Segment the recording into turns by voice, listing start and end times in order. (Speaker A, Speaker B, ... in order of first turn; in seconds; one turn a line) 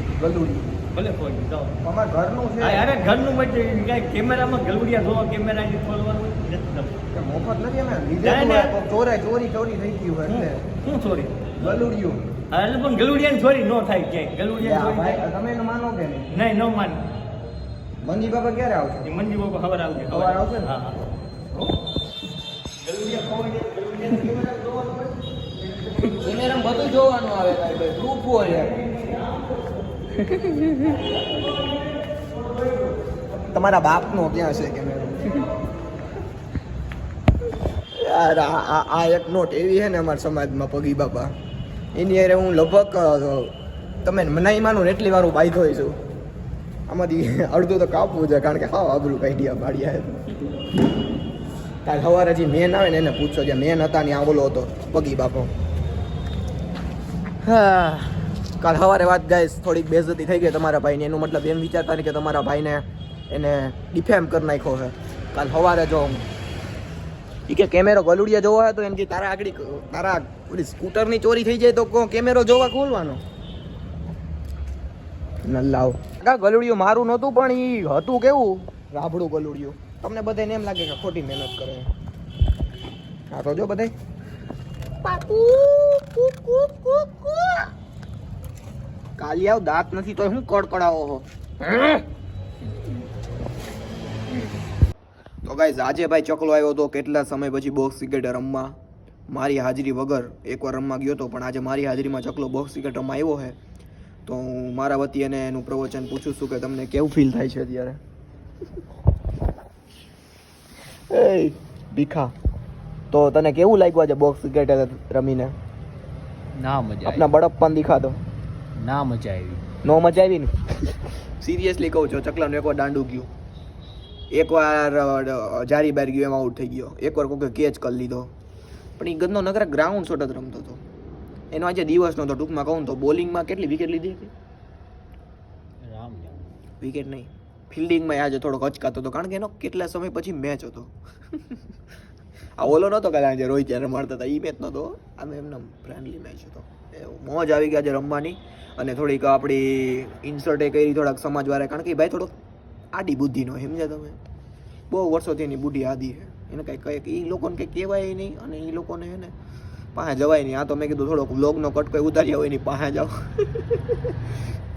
Speaker A: 0.2-0.8
Speaker B: 0.9-1.8
Speaker A: 1.8-2.9
Speaker B: 2.6-7.0
Speaker A: 7.1-10.7
Speaker B: 8.2-8.8
Speaker B: 10.3-11.5
Speaker A: 11.6-12.2
Speaker B: 12.5-15.2
Speaker A: 14.6-16.4
Speaker B: 16.3-17.1
Speaker A: 18.0-19.1
Speaker B: 19.0-20.9
Speaker A: 20.1-20.8
Speaker B: 22.9-24.6
Speaker A: 24.0-24.5
Speaker A: 26.0-28.9
Speaker A: 33.5-35.4
Speaker A: 38.0-41.4
Speaker A: 41.9-46.0
Speaker A: 46.9-50.2
Speaker A: 51.9-55.5
Speaker C: 57.4-58.2
Speaker A: 58.6-66.3
Speaker A: 67.5-73.2
Speaker A: 75.5-81.9
Speaker A: 83.3-83.9
Speaker A: 85.0-87.7
Speaker A: 89.2-92.0
Speaker A: 95.4-98.8
Speaker A: 99.3-103.6
Speaker A: 104.3-108.0
Speaker A: 111.1-112.3
Speaker A: 113.1-115.5
Speaker C: 116.5-117.3
Speaker A: 117.0-118.2
Speaker C: 118.8-119.7
Speaker A: 119.8-120.5
Speaker A: 121.4-123.3
Speaker A: 124.3-128.3
Speaker A: 129.0-130.8
Speaker A: 131.5-134.3
Speaker C: 135.8-136.5
Speaker A: 136.8-140.9
Speaker A: 142.6-152.3
Speaker A: 152.9-154.2
Speaker A: 154.9-159.3
Speaker A: 159.9-164.0